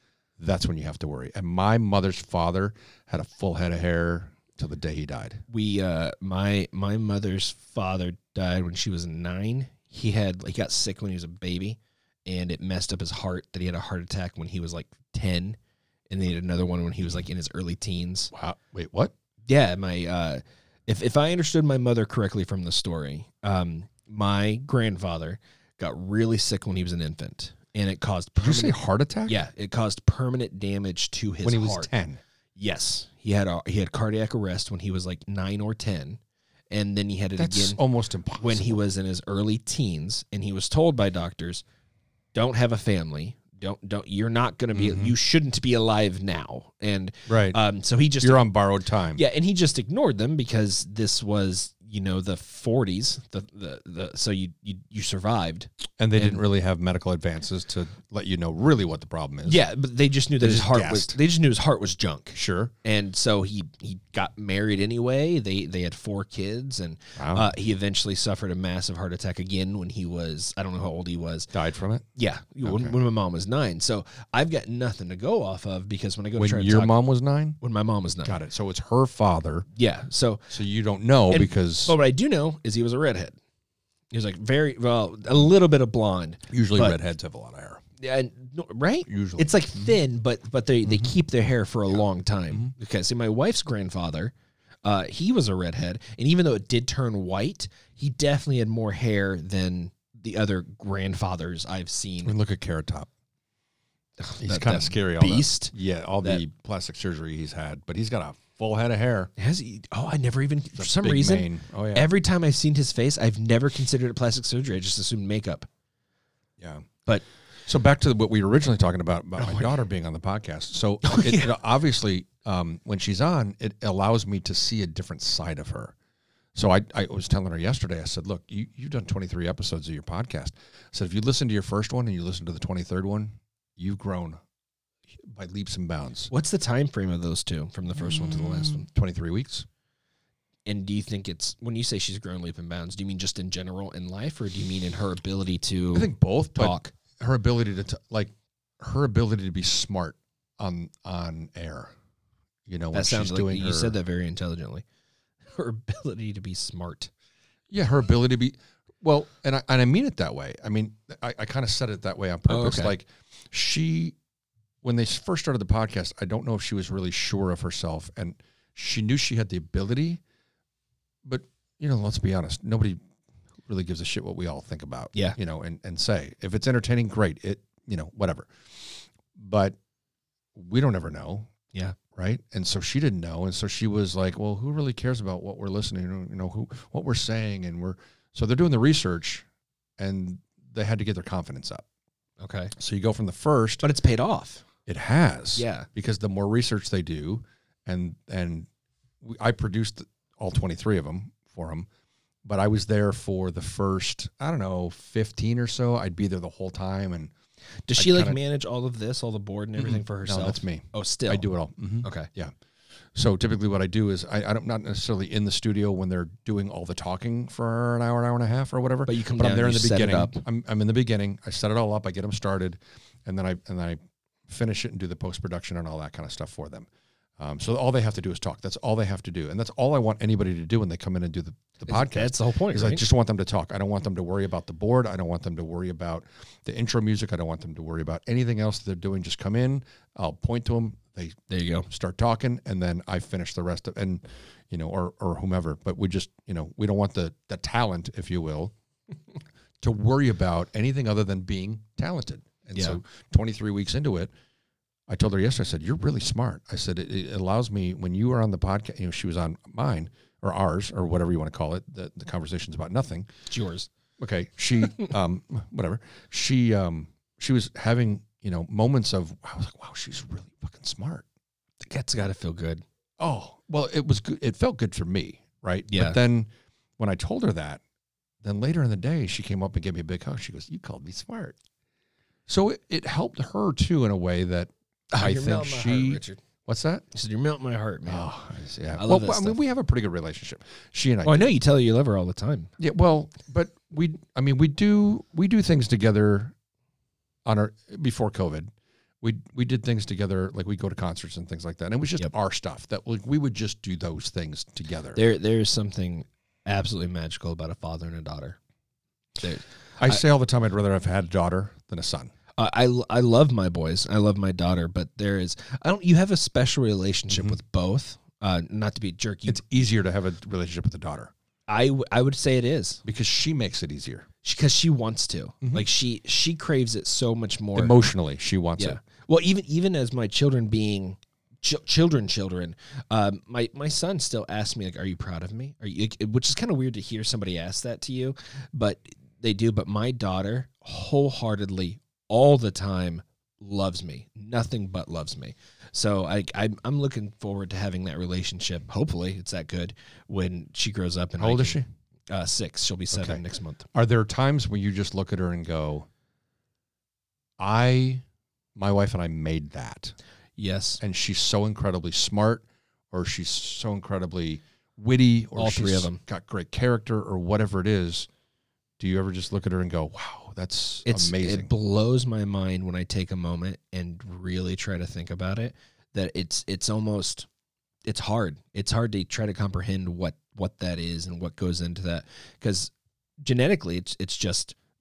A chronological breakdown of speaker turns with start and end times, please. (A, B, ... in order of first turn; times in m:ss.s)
0:00.4-0:05.4 A
0:05.5-0:15.6 B
0:16.1-0:18.3 B
0:18.3-0:19.1 A
0:19.5-0:31.9 B
0:28.4-0:29.4 A
0:31.4-0:32.2 A
0:32.6-0:36.2 B
0:36.7-0:37.8 B
0:37.4-0:38.8 A
0:38.4-0:41.6 B
0:42.3-0:48.4 B
0:44.7-0:45.1 A
0:47.3-0:47.6 A
0:48.2-0:49.2 A
0:49.1-0:56.4 B
0:56.0-0:59.6 A
0:59.4-1:11.5 B
1:00.4-1:01.2 A
1:02.3-1:02.7 A
1:07.2-1:07.5 A
1:11.5-1:12.0 A
1:12.2-1:17.0 B
1:12.6-1:12.9 A
1:16.4-1:17.6 A
1:17.6-1:18.3 B
1:18.2-1:19.7 A
1:19.8-1:20.5 B
1:20.5-1:22.0 A
1:21.3-1:23.4 B
1:24.1-1:27.0 B
1:26.5-1:27.8 A
1:28.0-1:42.3 B
1:29.1-1:29.9 A
1:30.9-1:31.1 A
1:42.2-1:43.1 A
1:44.2-1:46.4 B
1:44.4-1:49.3 A
1:49.4-1:55.7 B
1:50.8-1:52.1 A
1:56.6-1:56.9 A
1:57.6-2:05.9 A
1:59.4-1:59.7 B
2:01.0-2:01.6 B
2:06.5-2:14.4 A
2:15.2-2:16.3 A
2:16.3-2:18.9 B
2:18.0-2:19.6 A
2:20.6-2:26.9 B
2:25.9-2:31.9 A
2:32.7-2:34.0 A
2:32.9-2:34.8 B
2:35.5-2:37.1 B
2:37.7-2:44.2 A
2:42.5-2:42.9 B
2:44.8-2:50.2 A
2:51.2-2:53.0 A
2:53.7-2:59.8 A
3:00.5-3:01.5 A
3:02.1-3:09.4 A
3:10.0-3:11.8 A
3:12.4-3:12.7 B
3:12.8-3:13.8 A
3:13.8-3:14.6 B
3:14.8-3:18.7 A
3:15.6-3:15.9 B
3:19.2-3:21.9 A
3:22.4-3:27.3 A
3:27.9-3:31.5 B
3:28.0-3:28.4 A
3:29.8-3:32.5 A
3:32.0-3:32.3 B
3:33.1-3:46.9 A
3:39.0-3:40.4 B
3:47.4-4:08.7 A
3:51.8-3:53.0 B
4:01.5-4:01.9 B
4:09.8-4:14.3 A
4:15.1-4:23.3 A
4:23.5-4:23.9 B
4:24.2-4:31.2 A
4:31.8-4:32.8 B
4:33.2-4:37.8 A
4:35.9-4:36.2 B
4:38.4-4:41.6 A
4:42.5-4:47.0 A
4:45.1-4:46.4 B
4:47.1-4:48.3 B
4:48.1-4:51.5 A
4:49.0-4:49.6 B
4:51.2-4:52.7 B
4:52.8-4:56.5 A
4:57.4-5:05.2 A
5:05.1-5:08.6 B
5:09.4-5:10.2 B
5:10.0-5:12.3 A
5:12.6-5:19.6 B
5:17.3-5:17.6 A
5:19.5-5:21.3 A
5:21.7-5:23.0 B
5:23.0-5:24.3 A
5:24.4-5:28.0 B
5:25.6-5:25.9 A
5:27.7-5:29.0 A
5:28.8-5:53.8 B
5:51.4-5:51.9 A
5:53.1-5:56.1 A
5:57.6-5:58.2 A
5:58.8-6:00.1 A
6:00.6-6:01.0 B
6:01.0-6:08.3 A
6:05.6-6:06.2 B
6:09.0-6:11.7 A
6:11.0-6:17.5 B
6:18.0-6:24.7 B